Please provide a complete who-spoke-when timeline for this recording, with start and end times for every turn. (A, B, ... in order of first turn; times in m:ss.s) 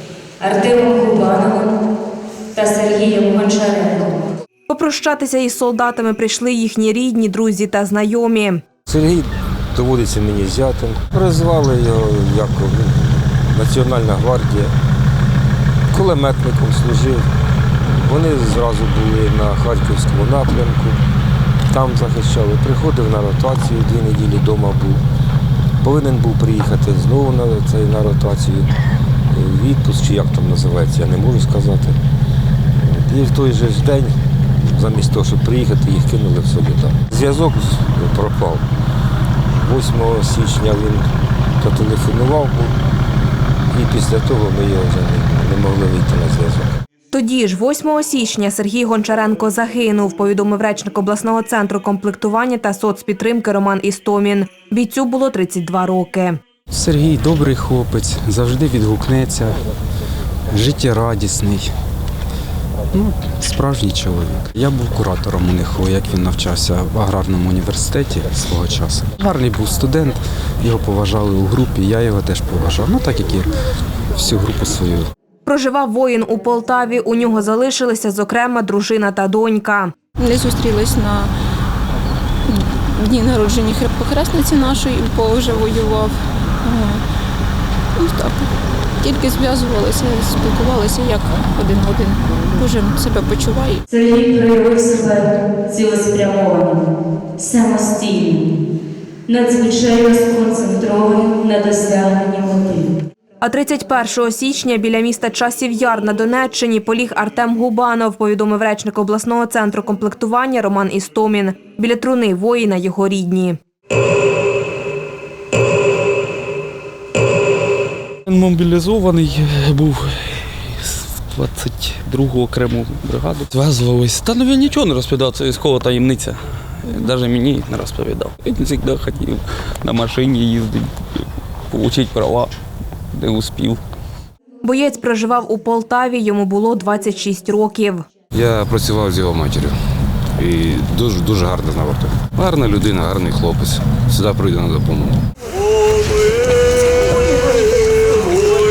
0:00.4-0:01.7 A
0:02.6-0:04.2 A
0:04.7-0:08.6 B
0:08.9-0:14.7 C
0:15.9-0:17.2 C
0:17.8-0:21.0 C
0:21.7-0:25.0 C
0:25.8-0:28.7 C
0:29.3-0:32.0 C
0:32.8-0:38.6 C
0:39.6-0:41.1 C
0:41.6-0:42.7 C
0:43.7-0:46.8 C
0:47.1-0:56.4 B
0:56.7-0:59.6 D
1:00.5-1:01.7 D
1:02.9-1:13.6 D
1:14.1-1:15.1 D
1:15.4-1:20.0 B
1:20.2-1:21.3 E
1:22.5-1:27.0 E
1:28.0-1:28.5 E
1:29.0-1:33.8 E
1:33.9-1:36.8 A
1:37.4-1:38.4 A
1:39.3-1:42.9 A
1:43.4-1:53.6 B
1:58.3-2:12.5 F
2:13.1-2:13.8 F
2:14.6-2:18.1 B
2:18.3-2:19.8 G
2:20.4-2:25.2 G